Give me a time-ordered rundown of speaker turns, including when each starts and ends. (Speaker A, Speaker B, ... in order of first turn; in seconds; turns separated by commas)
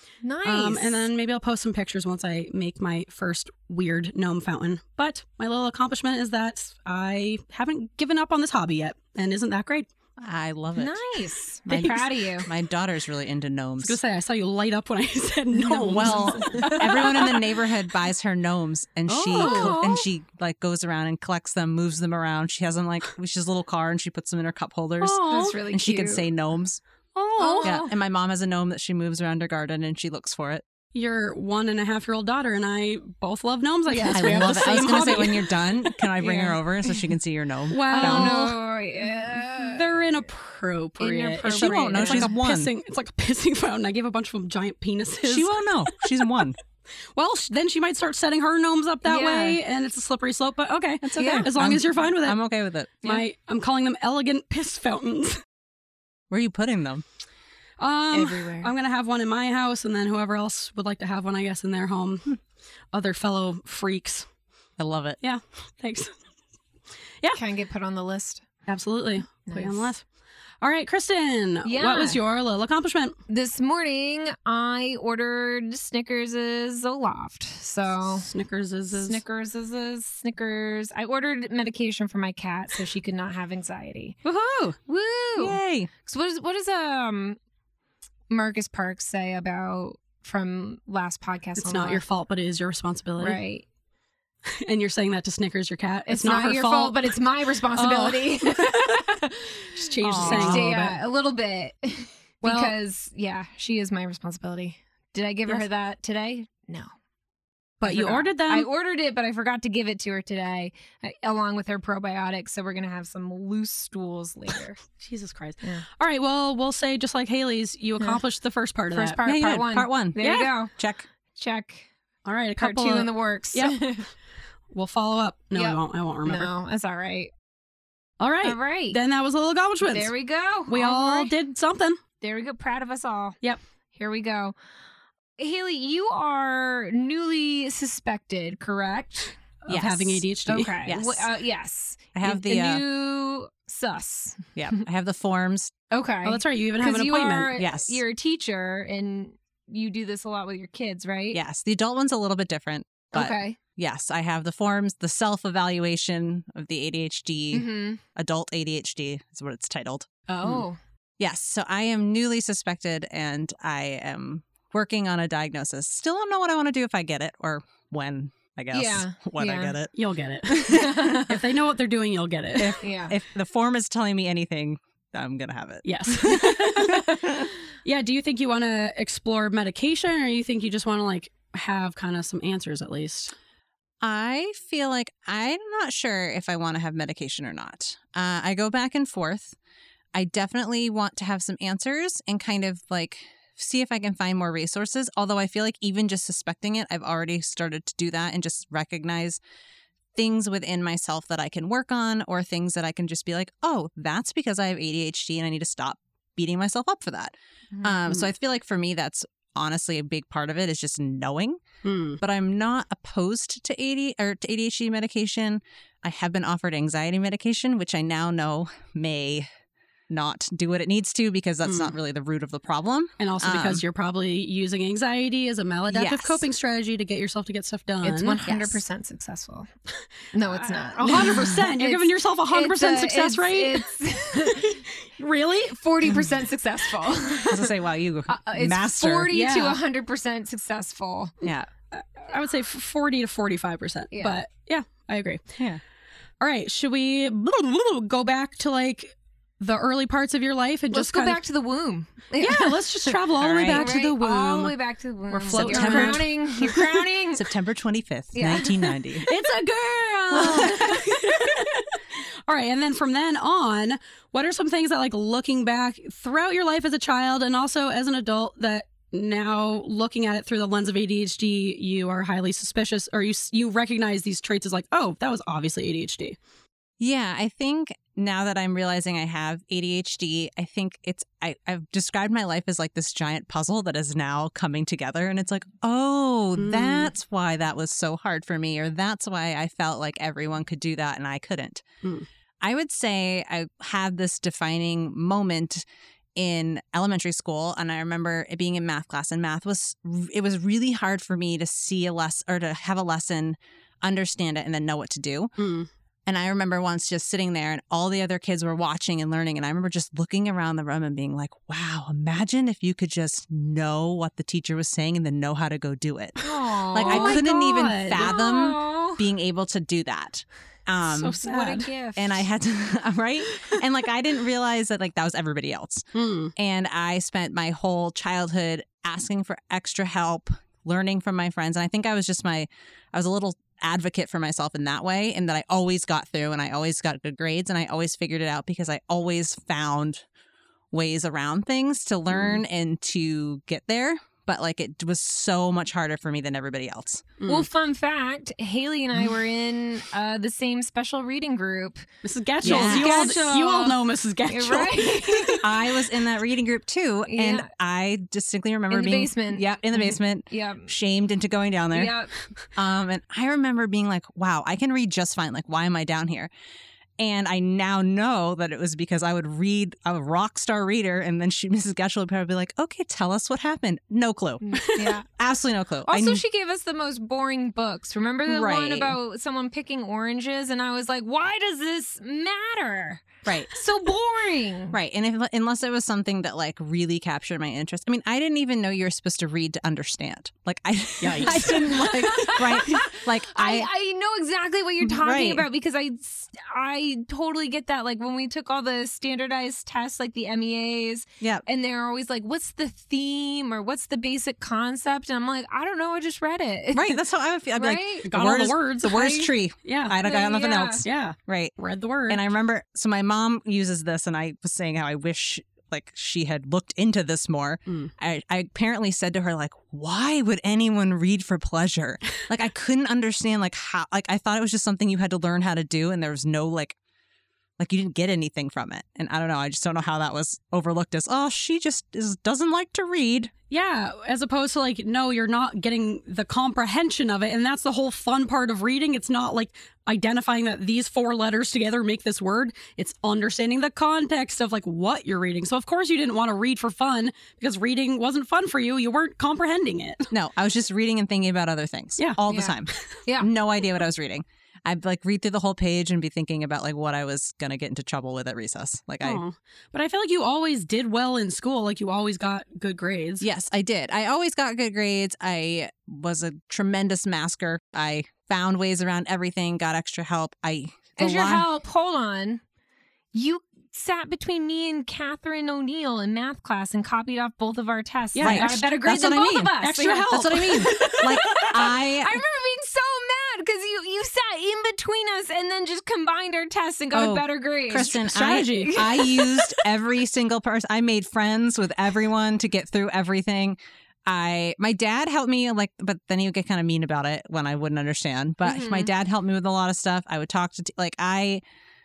Speaker A: 0.2-1.1, Speaker B: 0.4-9.9, Speaker C: 10.2-14.0, Speaker A: 10.8-12.5, Speaker B: 11.7-12.0, Speaker B: 13.8-17.3, Speaker C: 15.6-26.8, Speaker A: 16.0-17.2, Speaker B: 19.1-19.8, Speaker A: 19.3-20.1, Speaker B: 25.0-25.6, Speaker A: 25.3-26.2, Speaker B: 27.1-27.7, Speaker A: 27.4-27.9, Speaker C: 27.6-30.6, Speaker B: 30.9-35.5, Speaker C: 34.1-38.4, Speaker A: 36.2-36.6, Speaker B: 37.7-38.5, Speaker A: 37.9-40.0, Speaker B: 39.6-46.0, Speaker A: 41.0-42.3, Speaker C: 41.5-42.7, Speaker C: 45.2-46.6, Speaker B: 47.1-52.4, Speaker A: 49.0-49.6, Speaker C: 51.0-53.2, Speaker A: 51.1-51.5, Speaker B: 53.0-55.4, Speaker C: 56.3-57.0, Speaker B: 57.8-62.4, Speaker A: 58.1-58.7, Speaker B: 62.9-64.3, Speaker C: 64.8-65.2, Speaker B: 65.2-66.1, Speaker A: 67.3-68.4, Speaker B: 68.7-70.0, Speaker A: 69.5-69.9, Speaker B: 70.6-73.2, Speaker A: 71.6-72.2, Speaker A: 73.3-78.3, Speaker B: 78.1-79.2, Speaker A: 79.0-84.2, Speaker C: 84.2-84.8, Speaker A: 84.8-87.4, Speaker C: 85.4-85.9, Speaker A: 88.3-92.0, Speaker B: 91.5-93.4, Speaker A: 93.2-93.6, Speaker B: 94.5-97.0, Speaker A: 96.1-106.9, Speaker B: 97.7-99.1, Speaker B: 99.7-101.0, Speaker C: 100.0-100.7, Speaker B: 102.4-102.7, Speaker B: 107.8-108.7, Speaker A: 107.8-114.8, Speaker B: 114.9-119.2, Speaker A: 118.9-120.7, Speaker C: 119.2-120.2, Speaker B: 120.2-120.5, Speaker C: 120.8-121.1, Speaker A: 121.3-121.9, Speaker B: 122.2-123.8, Speaker A: 122.6-124.1, Speaker B: 124.7-126.5, Speaker A: 125.5-127.3, Speaker B: 128.2-130.1, Speaker A: 128.4-129.0, Speaker A: 129.8-131.3, Speaker B: 130.7-132.0, Speaker A: 132.2-133.4, Speaker A: 133.9-134.5, Speaker A: 135.4-139.6, Speaker B: 139.6-140.8, Speaker C: 139.7-140.2, Speaker A: 140.5-144.8, Speaker C: 140.8-141.3, Speaker C: 142.1-142.8, Speaker C: 144.6-145.7, Speaker A: 145.9-151.4, Speaker B: 146.2-147.5, Speaker C: 147.6-148.0, Speaker C: 151.3-160.1, Speaker A: 153.1-153.6, Speaker A: 157.5-158.0, Speaker A: 160.3-160.8, Speaker C: 161.2-169.9, Speaker A: 168.7-169.7, Speaker B: 169.9-172.8, Speaker C: 170.4-171.2, Speaker A: 170.7-171.3, Speaker C: 172.6-177.5, Speaker A: 172.8-173.1, Speaker B: 175.8-183.3, Speaker C: 184.0-189.6, Speaker C: 190.1-199.4, Speaker C: 200.1-211.6, Speaker A: 207.7-208.0, Speaker B: 211.8-212.2, Speaker C: 212.2-219.5, Speaker C: 220.1-223.8, Speaker B: 221.6-221.9, Speaker B: 223.2-228.4, Speaker C: 225.9-226.4, Speaker A: 228.0-229.7, Speaker C: 228.4-228.8, Speaker A: 230.3-234.9, Speaker B: 230.4-233.8, Speaker B: 234.4-235.8, Speaker A: 235.6-237.7, Speaker C: 237.5-239.4, Speaker A: 238.3-241.3, Speaker B: 239.3-239.8, Speaker C: 241.4-241.7, Speaker B: 241.9-245.5, Speaker A: 244.1-244.4, Speaker B: 246.4-251.4, Speaker A: 250.9-257.4, Speaker B: 252.4-254.7, Speaker C: 253.4-253.9, Speaker B: 255.3-257.0, Speaker C: 255.5-256.3, Speaker C: 257.3-259.3, Speaker A: 258.3-259.0, Speaker B: 259.2-276.4, Speaker C: 260.3-261.0, Speaker A: 260.3-261.0, Speaker C: 277.0-291.8, Speaker B: 286.6-287.1, Speaker C: 292.6-295.8, Speaker C: 296.4-305.5, Speaker B: 305.6-305.9, Speaker C: 306.2-321.4, Speaker A: 316.4-317.4, Speaker B: 317.0-318.3, Speaker A: 318.1-319.2, Speaker B: 321.0-321.9, Speaker A: 321.4-322.4, Speaker C: 322.1-326.0, Speaker B: 326.1-326.5, Speaker C: 326.6-340.2, Speaker C: 340.9-347.2, Speaker B: 342.3-342.6, Speaker B: 347.4-347.7, Speaker A: 347.5-352.1, Speaker B: 352.2-355.6, Speaker A: 352.6-355.7, Speaker C: 352.6-353.4, Speaker C: 355.6-362.1, Speaker A: 357.3-357.7, Speaker A: 358.9-360.9, Speaker A: 361.9-362.3, Speaker C: 362.7-366.5, Speaker C: 367.2-374.6, Speaker A: 374.6-375.3, Speaker B: 374.7-375.1, Speaker C: 375.2-376.4, Speaker A: 376.1-384.9, Speaker C: 378.5-379.2, Speaker C: 383.4-383.7, Speaker C: 384.9-393.9, Speaker B: 391.2-392.0, Speaker A: 391.4-407.2, Speaker C: 395.0-395.6, Speaker C: 406.9-411.7, Speaker A: 407.7-408.3, Speaker B: 408.2-410.1, Speaker A: 409.1-409.5, Speaker A: 410.2-411.1, Speaker B: 411.0-412.4, Speaker C: 412.3-427.0, Speaker C: 427.8-433.5, Speaker B: 433.7-450.3, Speaker C: 450.3-459.4, Speaker A: 452.5-453.5, Speaker B: 459.2-463.4, Speaker C: 463.4-471.6, Speaker A: 471.2-472.6, Speaker A: 473.3-489.8, Speaker B: 478.3-478.9, Speaker C: 478.4-479.8, Speaker B: 479.8-481.7, Speaker C: 480.3-482.4, Speaker C: 487.1-501.6, Speaker B: 488.2-489.0, Speaker A: 498.6-499.1